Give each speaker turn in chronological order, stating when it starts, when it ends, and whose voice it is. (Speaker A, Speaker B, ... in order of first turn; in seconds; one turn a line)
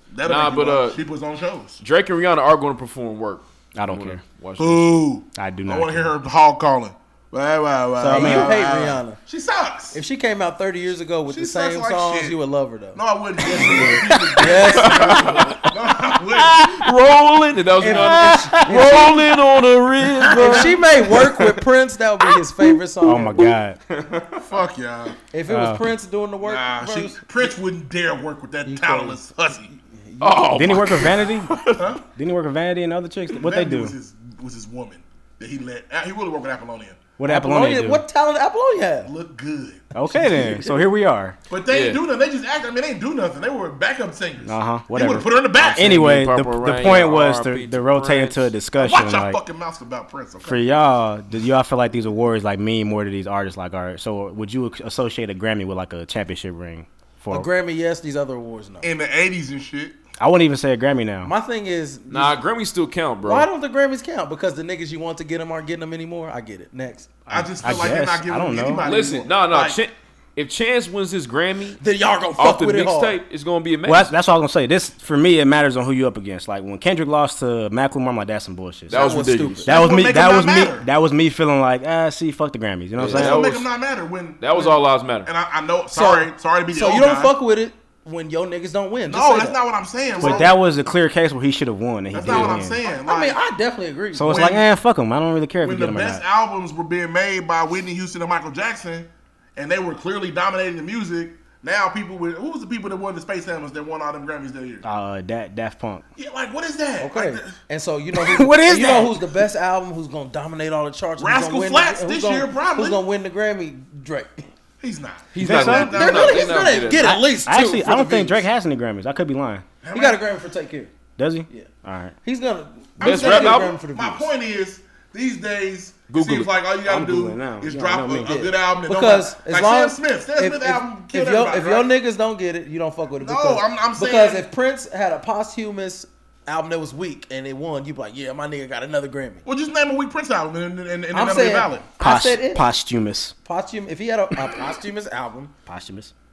Speaker A: 0.1-1.8
Speaker B: 0.2-1.0
Speaker B: 1.8-5.0
Speaker C: 3.7-4.2
Speaker A: 4.6-10.0
Speaker C: 5.3-6.1
Speaker C: 8.0-8.6
Speaker D: 8.1-9.2
Speaker D: 9.9-13.0
Speaker A: 11.3-12.4
Speaker A: 12.9-16.9
Speaker B: 13.5-15.7
Speaker C: 13.6-14.0
Speaker D: 14.4-15.2
Speaker B: 16.3-21.5
Speaker D: 17.8-19.3
Speaker C: 17.9-18.8
Speaker A: 20.3-20.7
Speaker D: 20.3-23.5
Speaker C: 23.0-23.8
Speaker B: 23.9-24.4
Speaker A: 24.4-25.1
Speaker D: 25.3-27.5
Speaker C: 25.5-25.9
Speaker A: 26.4-29.7
Speaker D: 28.6-31.0
Speaker B: 30.2-31.8
Speaker C: 30.5-33.9
Speaker A: 31.6-32.0
Speaker A: 33.4-37.0
Speaker C: 37.2-38.0
Speaker D: 37.2-39.1
Speaker A: 39.0-39.8
Speaker D: 39.9-40.9
Speaker C: 39.9-41.4
Speaker A: 41.5-46.1
Speaker B: 41.7-42.0
Speaker C: 44.4-49.4
Speaker B: 45.6-48.5
Speaker A: 48.8-50.8
Speaker C: 50.4-57.5
Speaker D: 57.3-58.9
Speaker A: 58.8-60.0
Speaker C: 60.2-61.3
Speaker D: 61.2-62.4
Speaker B: 62.1-63.5
Speaker D: 63.2-67.1
Speaker C: 67.3-68.8
Speaker A: 67.3-69.8
Speaker B: 68.8-71.8
Speaker D: 71.8-73.2
Speaker B: 72.4-74.1
Speaker C: 73.8-79.1
Speaker B: 78.9-79.7
Speaker D: 78.9-79.7
Speaker C: 79.6-83.4
Speaker A: 79.7-80.9
Speaker B: 83.0-83.7
Speaker A: 83.0-87.3
Speaker B: 84.4-85.3
Speaker D: 85.9-89.6
Speaker A: 89.0-90.8
Speaker C: 90.2-92.8
Speaker D: 90.2-90.5
Speaker A: 92.1-93.4
Speaker D: 92.2-94.5
Speaker C: 94.1-96.2
Speaker A: 94.2-94.7
Speaker A: 95.6-104.8
Speaker C: 104.8-106.0
Speaker A: 106.1-107.6
Speaker D: 107.0-114.5
Speaker C: 108.1-109.2
Speaker A: 111.2-113.0
Speaker A: 114.8-116.6
Speaker B: 115.3-117.3
Speaker C: 115.4-116.0
Speaker D: 115.7-118.5
Speaker C: 117.5-119.7
Speaker A: 119.8-120.2
Speaker D: 119.9-120.9
Speaker C: 121.2-122.1
Speaker D: 122.2-124.3
Speaker B: 123.0-123.7
Speaker A: 123.0-131.9
Speaker B: 126.1-126.5
Speaker C: 126.8-128.3
Speaker D: 128.2-139.4
Speaker A: 133.2-134.4
Speaker A: 139.4-141.9
Speaker D: 141.1-142.7
Speaker C: 142.0-143.3
Speaker D: 143.4-145.5
Speaker C: 145.7-146.1